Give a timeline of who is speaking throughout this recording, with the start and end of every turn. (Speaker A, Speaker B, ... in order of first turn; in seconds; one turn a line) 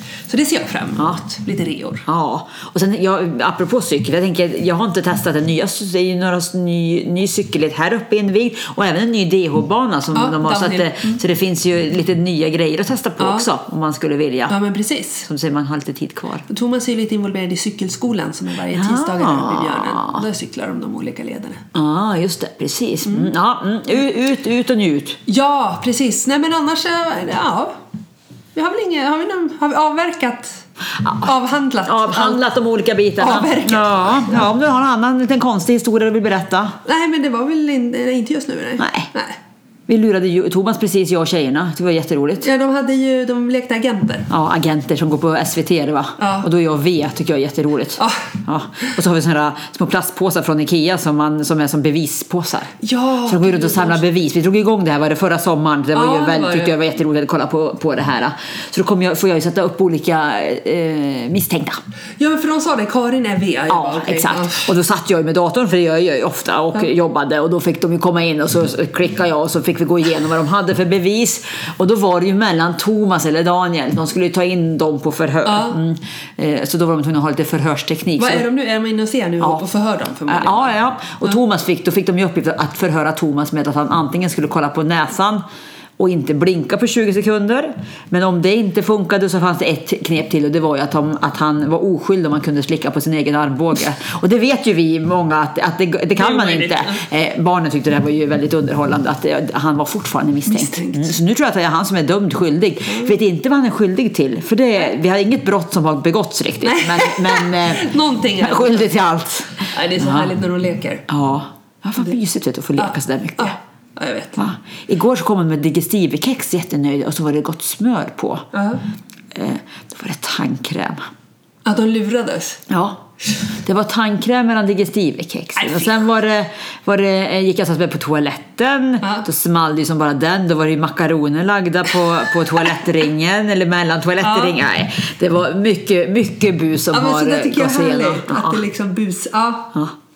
Speaker A: 0.2-2.1
Speaker B: 2.1-14.6
Speaker A: 10.1-11.2
Speaker A: 13.2-13.5
Speaker A: 14.5-15.3
Speaker B: 15.3-16.5
Speaker A: 16.5-21.6
Speaker B: 18.7-20.2
Speaker B: 21.7-25.2
Speaker A: 23.1-23.3
Speaker A: 25.3-27.8
Speaker A: 28.6-30.6
Speaker B: 31.0-31.3
Speaker A: 31.2-32.4
Speaker B: 31.9-36.8
Speaker A: 33.2-34.5
Speaker A: 36.9-39.4
Speaker B: 38.8-39.1
Speaker B: 39.9-42.5
Speaker A: 42.4-44.3
Speaker B: 44.3-61.8
Speaker A: 46.2-46.5
Speaker A: 48.0-48.3
Speaker A: 52.8-54.0
Speaker A: 55.9-56.8
Speaker A: 62.2-64.7
Speaker B: 63.7-78.4
Speaker A: 75.5-75.8
Speaker A: 78.2-81.4
Speaker B: 80.3-85.4
Speaker B: 86.0-110.3
Speaker A: 96.2-97.0
Speaker A: 100.5-101.1
Speaker A: 102.9-103.1
Speaker A: 106.6-108.9
Speaker A: 109.7-111.0
Speaker B: 111.1-113.6
Speaker A: 112.8-114.5
Speaker B: 114.4-118.5
Speaker A: 118.5-118.8
Speaker B: 119.3-121.1
Speaker A: 121.6-122.6
Speaker B: 122.7-138.6
Speaker A: 125.6-125.9
Speaker A: 129.0-129.3
Speaker A: 134.2-134.6
Speaker A: 136.9-139.8